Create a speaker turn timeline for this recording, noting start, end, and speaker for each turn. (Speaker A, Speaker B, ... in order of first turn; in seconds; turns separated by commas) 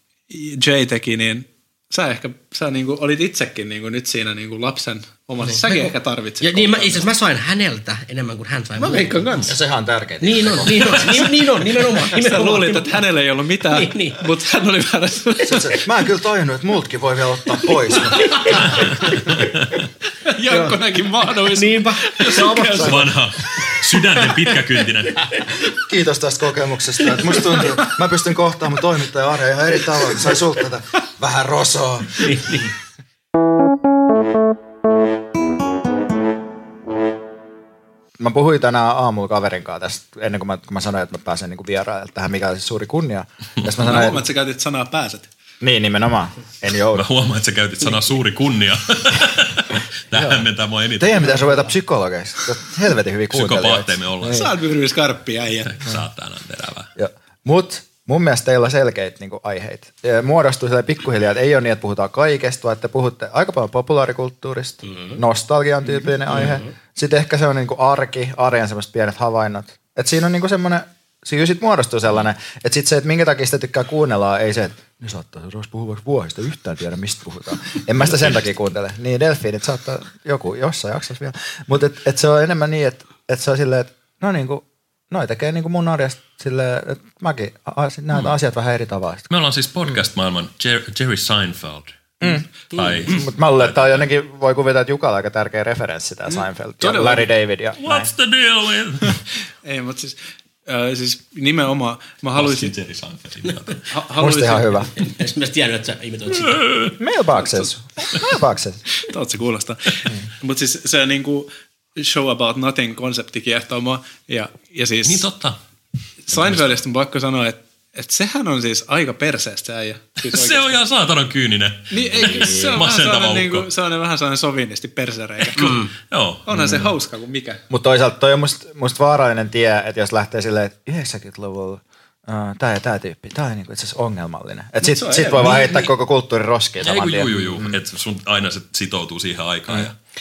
Speaker A: 0.3-7.1, Speaker B: 5.4-9.3, Speaker A: 8.8-9.5, Speaker C: 9.5-11.4, Speaker B: 10.2-13.0, Speaker A: 11.7-15.8, Speaker B: 13.7-14.2, Speaker C: 15.4-19.2, Speaker B: 18.2-19.0, Speaker D: 19.3-19.5, Speaker A: 20.3-23.0, Speaker B: 20.5-20.8, Speaker B: 21.5-23.1, Speaker D: 22.8-25.2, Speaker C: 25.7-32.6, Speaker B: 32.2-32.7, Speaker C: 38.2-44.2, Speaker A: 43.8-45.3, Speaker C: 45.6-47.0, Speaker D: 46.9-51.3, Speaker C: 50.1-50.4, Speaker C: 51.0-54.5, Speaker D: 53.3-54.5, Speaker A: 54.3-55.8, Speaker D: 55.6-56.9, Speaker C: 57.0-89.3, Speaker B: 64.9-65.2, Speaker B: 66.3-66.7, Speaker D: 89.3-92.0, Speaker D: 92.7-94.0, Speaker C: 93.0-98.1, Speaker A: 96.3-97.2, Speaker D: 97.8-99.2, Speaker A: 99.6-102.7, Speaker D: 102.3-103.8, Speaker A: 103.9-104.9, Speaker C: 104.2-104.9, Speaker B: 104.9-106.6, Speaker D: 106.4-106.9, Speaker C: 107.0-108.8, Speaker A: 109.0-115.2, Speaker D: 115.0-115.6, Speaker A: 116.3-120.8, Speaker D: 116.3-116.8, Speaker D: 120.3-123.7, Speaker A: 121.9-125.8, Speaker D: 125.6-126.8, Speaker A: 126.5-127.6, Speaker C: 127.7-137.8, Speaker A: 134.8-135.9, Speaker D: 136.8-139.9